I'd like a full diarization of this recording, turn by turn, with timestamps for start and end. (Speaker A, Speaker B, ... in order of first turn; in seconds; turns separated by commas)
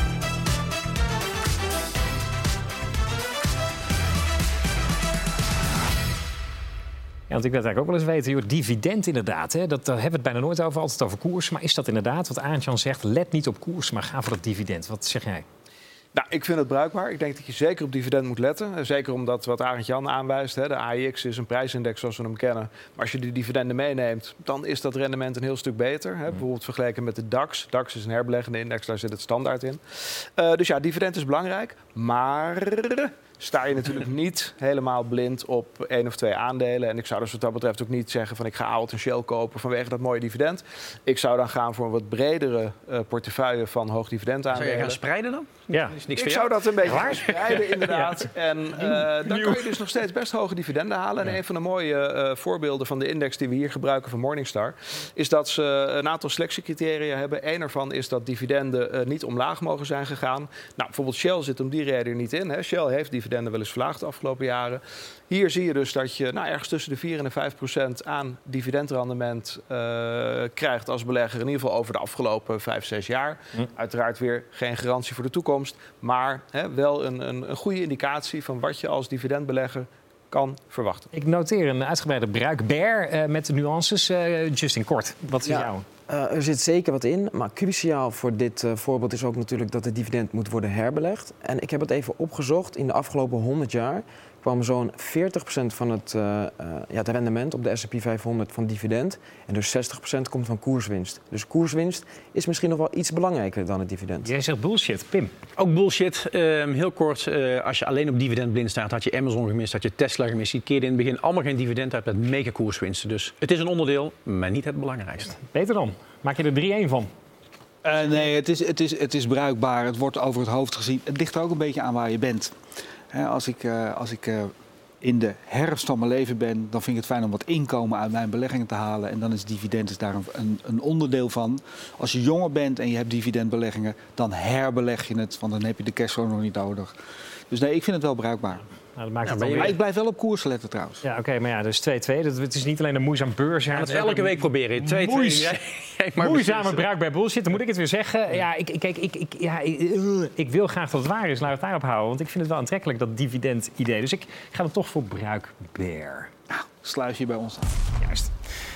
Speaker A: 7.3-15.4, Speaker B: 16.1-45.0, Speaker C: 44.5-47.9, Speaker A: 45.7-46.0, Speaker B: 46.1-81.1, Speaker A: 46.8-48.2, Speaker C: 48.8-49.6, Speaker A: 49.2-49.6, Speaker A: 81.1-85.8, Speaker D: 85.4-104.3, Speaker A: 104.2-105.3, Speaker C: 105.6-115.4, Speaker A: 115.4-117.1, Speaker E: 117.8-122.5, Speaker E: 123.1-136.9, Speaker E: 137.5-138.6, Speaker A: 138.9-139.8, Speaker C: 139.2-139.8, Speaker E: 139.5-141.0, Speaker A: 141.0-145.6, Speaker C: 143.7-146.8, Speaker A: 146.2-156.3, Speaker E: 156.5-157.8, Speaker A: 158.0-158.3